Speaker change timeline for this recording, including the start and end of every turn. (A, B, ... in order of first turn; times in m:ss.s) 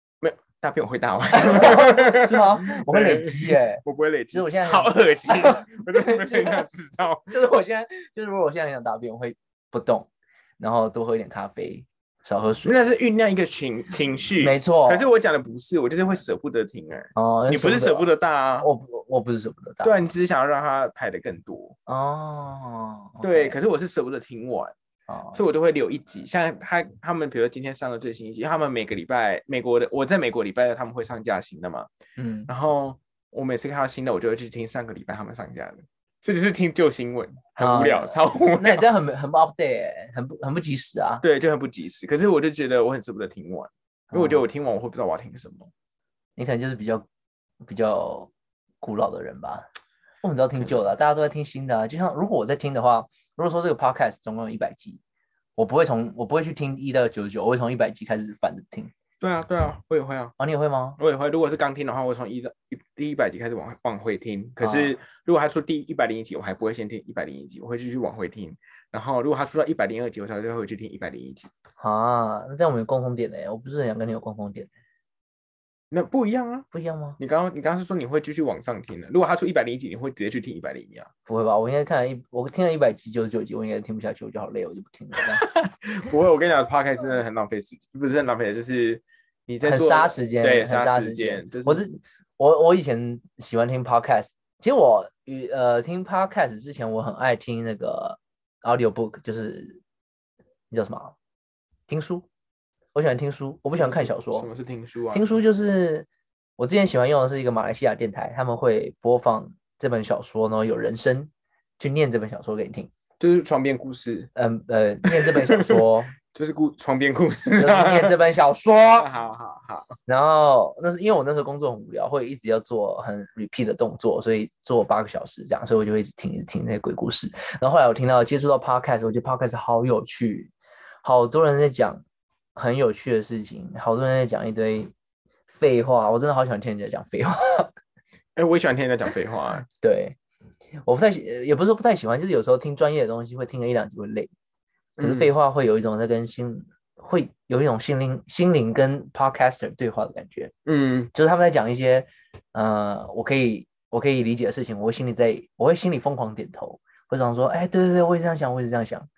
0:00.2-0:07.3 A
0:01.3-0:06.6 B
0:07.3-0:10.1 B
0:10.6-0:12.8 B
0:12.6-0:18.7 A
0:14.4-0:15.1 B
0:17.1-0:20.0 B
0:19.8-0:21.8 A
0:21.9-0:23.6 B
0:23.2-0:24.7 A
0:25.1-0:25.4 B
0:25.3-0:31.9 A
0:32.2-0:32.5 B
0:32.5-0:38.9 A
0:37.6-0:41.2 B
0:41.2-0:45.7 A
0:44.1-0:44.4 B
0:46.4-0:47.0 B
0:47.6-0:49.6 B
0:50.2-0:55.0 B
0:55.6-0:58.9 B
0:59.2-1:00.3 A
1:00.4-1:01.0 B
1:01.0-1:11.5 A
1:04.6-1:05.0 B
1:11.8-1:14.7 B
1:15.9-1:16.7 A
1:16.7-1:17.2 B
1:17.2-1:21.1 A
1:21.2-1:25.4 B
1:25.4-1:31.8 A
1:29.6-1:39.8 B
1:40.7-1:41.1 B
1:41.9-1:42.2 B
1:42.9-1:44.5 B
1:43.8-1:45.4 A
1:45.1-1:52.9 B
1:53.2-1:54.3 A
1:54.3-1:56.1 B
1:55.0-1:58.2 A
1:57.6-1:59.1 B
1:59.0-1:59.9 A
2:00.1-2:10.5 B
2:11.0-2:12.0 B
2:12.5-2:14.9 B
2:15.5-2:17.7 B
2:18.4-2:19.6 A
2:19.6-2:20.2 B
2:20.8-2:24.3 B
2:25.0-2:25.3 A
2:25.0-2:30.5 B
2:30.6-2:31.1 A
2:31.1-2:39.1 B